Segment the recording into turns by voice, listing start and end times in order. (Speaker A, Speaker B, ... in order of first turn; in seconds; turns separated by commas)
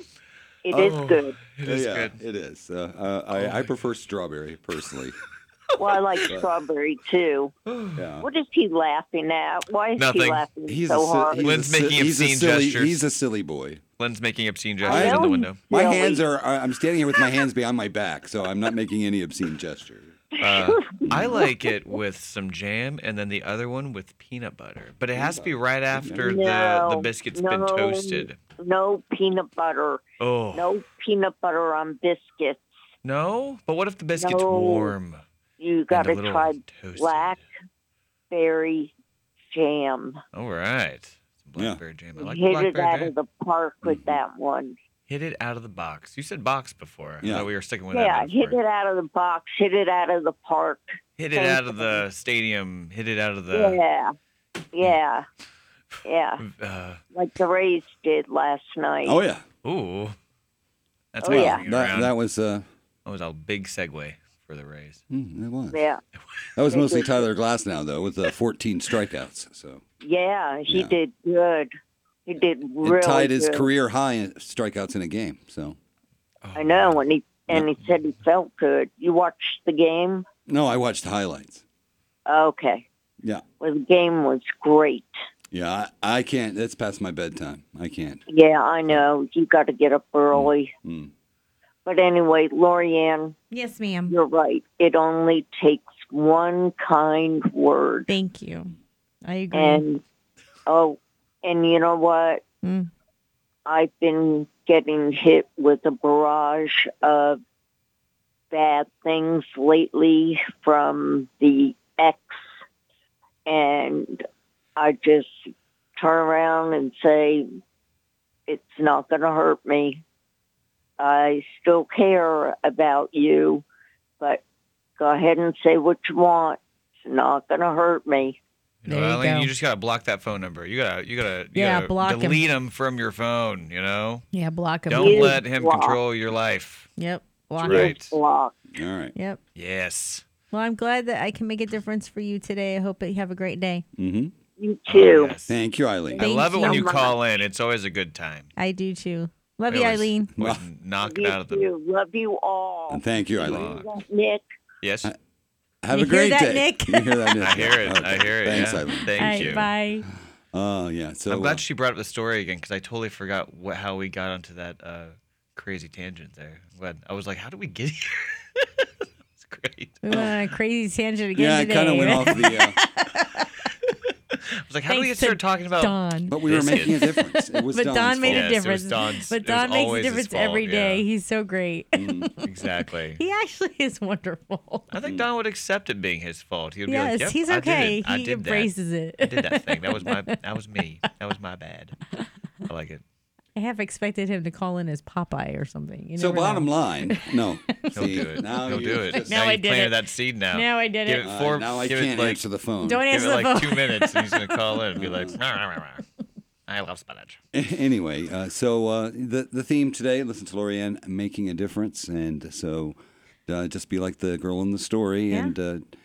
Speaker A: 0.7-1.4, Speaker B: 0.8-2.2, Speaker C: 1.6-5.2, Speaker B: 3.3-3.7, Speaker A: 5.8-7.5, Speaker B: 7.7-8.1, Speaker C: 8.0-8.3, Speaker A: 8.2-11.5, Speaker B: 10.0-10.5, Speaker C: 10.7-13.8, Speaker B: 11.4-13.1, Speaker B: 14.0-15.7, Speaker A: 14.8-16.2, Speaker C: 14.9-20.1, Speaker A: 20.4-21.5, Speaker B: 20.4-28.4, Speaker C: 21.1-21.5, Speaker C: 25.1-26.3, Speaker A: 26.2-30.0, Speaker B: 30.2-30.8, Speaker A: 30.5-32.7, Speaker B: 33.0-35.2, Speaker A: 34.2-35.0, Speaker A: 35.6-37.5, Speaker B: 35.9-37.4, Speaker A: 38.3-38.9, Speaker A: 39.5-40.2, Speaker B: 40.3-43.1, Speaker A: 42.2-44.8, Speaker C: 43.8-44.2, Speaker B: 45.1-48.6, Speaker C: 47.2-47.5, Speaker A: 47.9-52.0, Speaker B: 51.2-53.8, Speaker A: 53.5-54.1, Speaker A: 54.7-55.3, Speaker A: 56.0-56.5, Speaker B: 56.4-57.0, Speaker A: 57.1-59.2, Speaker C: 59.0-59.4, Speaker B: 59.6-60.2, Speaker B: 61.1-62.1, Speaker A: 61.2-61.6, Speaker C: 61.3-62.7, Speaker B: 63.0-65.0, Speaker C: 65.1-65.8, Speaker A: 65.7-66.0, Speaker C: 66.5-69.8, Speaker A: 66.7-67.3, Speaker A: 70.0-71.7, Speaker C: 70.7-70.9, Speaker A: 72.3-73.7, Speaker C: 72.8-75.8, Speaker B: 76.4-77.0, Speaker A: 76.5-80.3, Speaker C: 80.5-81.6, Speaker A: 82.3-82.9, Speaker A: 83.6-85.1, Speaker C: 85.5-88.2, Speaker A: 88.3-90.7, Speaker C: 90.3-91.1, Speaker A: 91.8-93.3, Speaker D: 93.5-94.2, Speaker A: 94.1-98.1, Speaker D: 98.1-99.9, Speaker A: 99.5-100.0, Speaker A: 100.7-102.4, Speaker D: 102.6-102.9, Speaker A: 103.7-107.4, Speaker A: 108.5-112.4, Speaker A: 113.5-114.2, Speaker A: 114.8-115.3, Speaker A: 116.0-117.5, Speaker A: 118.5-120.0, Speaker A: 121.0-123.7, Speaker A: 125.0-128.4, Speaker B: 128.8-134.3, Speaker D: 128.9-129.5, Speaker D: 131.6-132.4, Speaker D: 134.3-135.4, Speaker B: 134.9-136.9, Speaker A: 134.9-136.0, Speaker D: 137.0-137.9, Speaker B: 137.6-138.1, Speaker A: 137.6-138.6, Speaker C: 138.7-139.1, Speaker B: 139.6-140.2, Speaker D: 140.5-143.8, Speaker C: 144.0-144.3, Speaker A: 144.6-145.3, Speaker B: 144.9-145.6, Speaker C: 145.5-146.3, Speaker A: 146.1-147.2, Speaker B: 146.2-148.5, Speaker D: 146.2-147.0, Speaker D: 148.6-150.3, Speaker B: 149.7-151.7, Speaker C: 150.4-150.6, Speaker A: 151.0-154.4, Speaker C: 152.9-153.9, Speaker B: 154.8-155.1, Speaker C: 155.8-159.7, Speaker D: 155.9-157.2, Speaker B: 157.4-159.7, Speaker D: 159.1-160.1, Speaker C: 160.5-161.6, Speaker B: 161.3-168.7, Speaker B: 169.3-170.0, Speaker D: 170.0-173.4, Speaker C: 170.1-170.4, Speaker C: 171.3-172.8, Speaker B: 174.7-177.1, Speaker D: 174.9-176.9, Speaker C: 176.3-178.6, Speaker D: 177.7-182.5, Speaker B: 178.3-181.1, Speaker C: 181.9-182.3, Speaker B: 182.4-183.2, Speaker D: 183.2-184.9, Speaker B: 184.9-193.0, Speaker C: 185.0-185.3, Speaker D: 186.9-190.3, Speaker D: 193.6-197.2, Speaker C: 196.2-199.5, Speaker D: 197.8-200.0, Speaker B: 197.9-202.5, Speaker D: 200.5-201.3, Speaker C: 201.2-203.1, Speaker D: 202.8-204.6, Speaker B: 203.1-206.0, Speaker C: 205.0-205.3, Speaker B: 206.7-207.4, Speaker C: 207.5-215.9